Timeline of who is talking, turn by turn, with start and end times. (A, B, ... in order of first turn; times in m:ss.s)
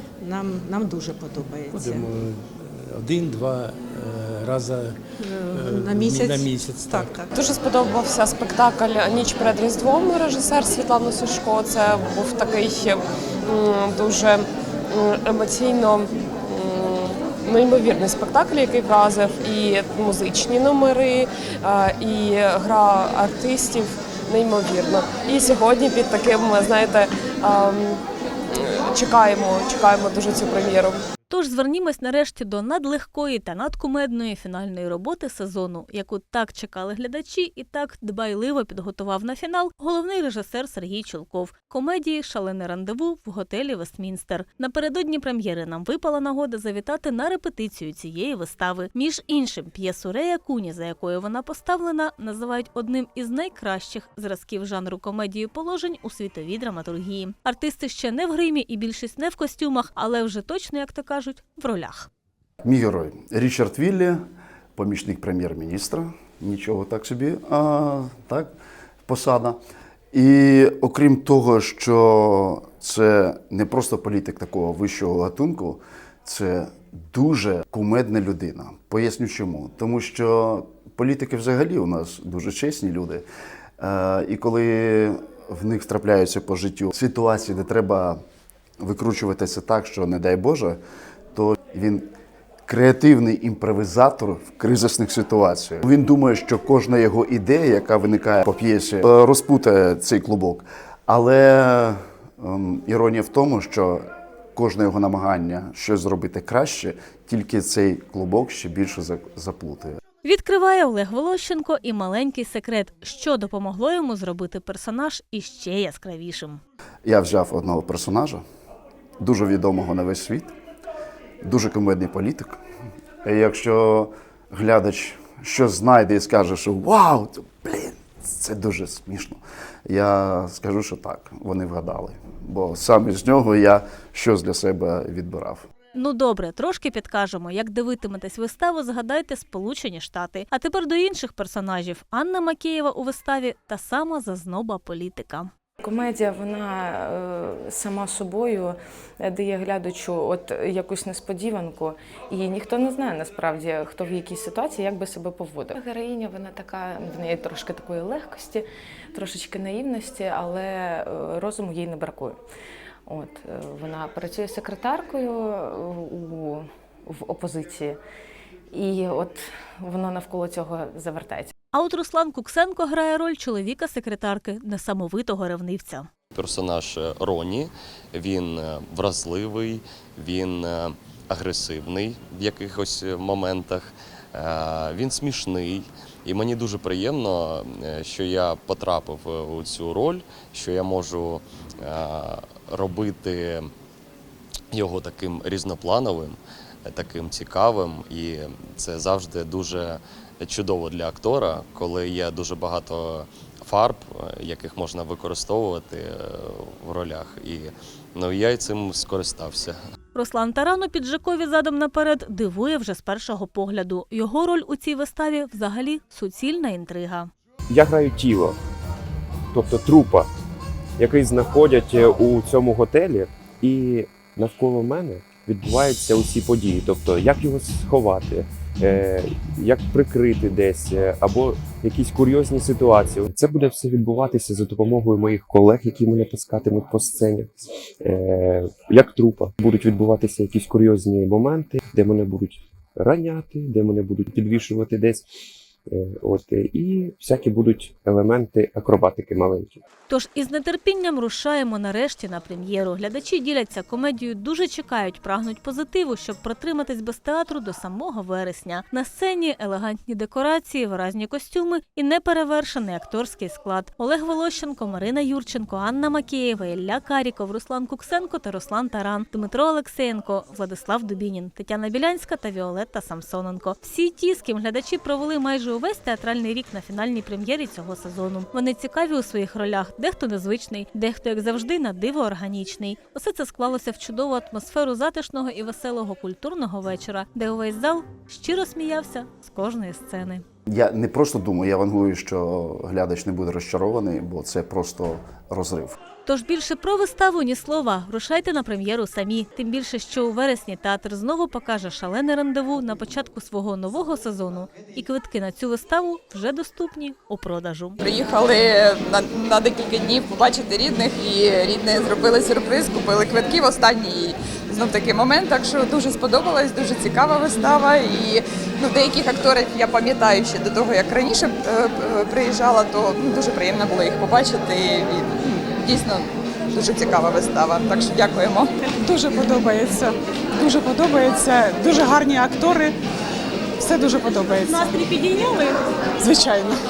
0:00.2-0:02.1 A
0:01.7-0:05.0 B
0:05.2-0:07.3 A
0:05.5-0:07.2 B
0:07.3-0:28.0 C
0:28.5-0:31.0 C
0:31.3-1:02.1 D
1:02.6-1:04.2 E
1:04.8-1:08.5 E
1:09.0-1:09.6 E
1:10.1-1:23.2 E
1:23.8-1:28.2 E
1:28.8-1:30.8 E
1:31.3-1:32.0 E
1:32.6-1:50.0 E
1:50.2-1:56.6 D
1:57.0-1:58.4 E
1:59.2-2:00.5 E
2:01.4-2:02.6 E
2:03.2-2:15.6 E
2:15.9-2:25.5 D
2:25.8-2:42.4 F
2:43.0-2:48.0 F
2:48.7-2:51.5 F
2:51.7-2:56.1 D
2:56.3-3:13.7 G
3:14.7-3:29.8 G
3:30.1-3:37.3 D
3:37.7-3:38.6 H
3:39.5-3:40.3 H
3:41.0-4:05.2 H
4:05.9-4:09.8 H
4:10.1-4:50.4 D
4:50.7-4:56.0 E
4:56.2-5:08.0 D
5:08.0-5:28.7 I
5:29.0-5:32.9 J
5:33.8-5:35.6 J
5:36.2-5:36.8 J